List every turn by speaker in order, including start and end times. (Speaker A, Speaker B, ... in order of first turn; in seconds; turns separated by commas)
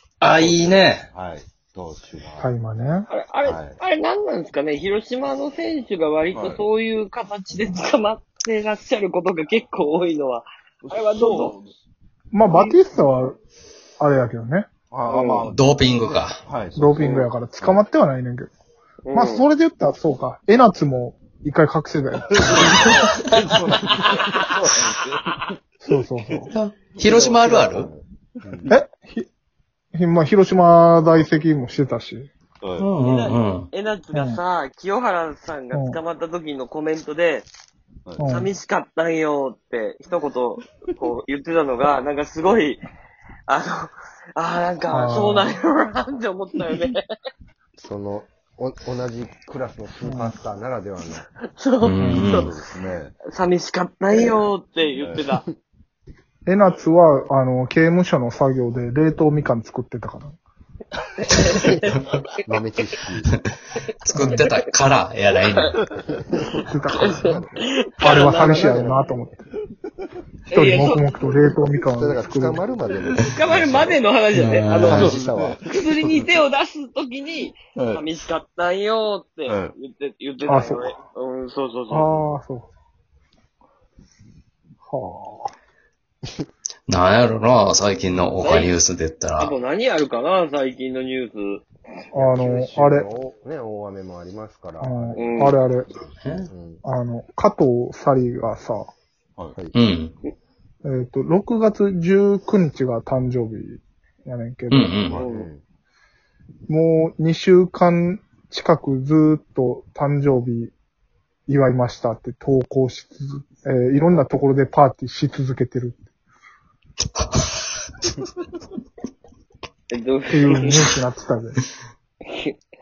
Speaker A: 0.2-1.1, Speaker B: 0.3-2.5, Speaker C: 2.4-3.1, Speaker D: 3.1-11.5, Speaker B: 3.4-3.8, Speaker B: 6.3-6.6, Speaker B: 10.8-11.8, Speaker C: 12.3-13.4, Speaker D: 12.5-12.8, Speaker C: 14.0-14.7, Speaker B: 14.9-17.8, Speaker D: 15.1-15.4, Speaker A: 15.5-16.4, Speaker C: 16.7-18.5, Speaker D: 17.0-17.3, Speaker D: 19.0-19.4, Speaker C: 19.1-22.8, Speaker B: 22.3-25.3, Speaker D: 22.5-23.2, Speaker C: 25.8-26.5, Speaker B: 26.2-26.5, Speaker A: 26.5-27.9, Speaker E: 27.1-28.7, Speaker C: 28.7-29.3, Speaker C: 29.9-32.3, Speaker B: 32.6-32.9, Speaker A: 32.8-33.7, Speaker D: 33.0-37.5, Speaker C: 34.1-34.4, Speaker C: 35.7-36.0, Speaker C: 38.2-38.5, Speaker D: 38.2-42.9, Speaker D: 43.5-47.0, Speaker C: 44.9-45.5, Speaker E: 47.8-51.2, Speaker C: 50.0-50.4, Speaker D: 51.5-52.5, Speaker A: 51.8-52.5, Speaker C: 52.0-52.4, Speaker B: 52.1-53.1, Speaker D: 53.3-55.4, Speaker B: 55.0-55.3, Speaker C: 56.5-60.4, Speaker D: 61.2-61.7, Speaker E: 61.4-63.3, Speaker A: 64.0-65.8, Speaker C: 64.2-64.5, Speaker D: 64.2-64.5, Speaker C: 66.6-69.4, Speaker D: 66.9-68.9, Speaker B: 68.0-68.6, Speaker E: 68.4-69.0, Speaker D: 70.5-71.0, Speaker C: 70.5-72.7, Speaker E: 71.7-74.0, Speaker D: 73.3-75.1, Speaker A: 74.3-75.1, Speaker E: 74.8-75.6, Speaker B: 74.8-76.3, Speaker D: 75.7-82.1, Speaker B: 77.8-78.0, Speaker B: 79.5-79.7, Speaker C: 80.5-80.9, Speaker C: 81.9-82.7, Speaker C: 84.8-85.5, Speaker A: 86.9-89.5, Speaker D: 88.4-88.7, Speaker D: 89.4-91.6, Speaker C: 92.1-93.1, Speaker E: 92.1-95.5, Speaker C: 94.8-95.9, Speaker D: 95.1-95.6, Speaker A: 96.2-96.5, Speaker E: 96.5-96.8, Speaker C: 96.8-98.9, Speaker A: 99.7-100.1, Speaker C: 100.8-105.0, Speaker A: 104.7-105.2, Speaker E: 105.1-105.6, Speaker D: 105.1-105.5, Speaker C: 106.7-110.7, Speaker C: 111.5-116.0, Speaker A: 117.2-117.5, Speaker D: 119.9-120.9, Speaker C: 120.3-121.6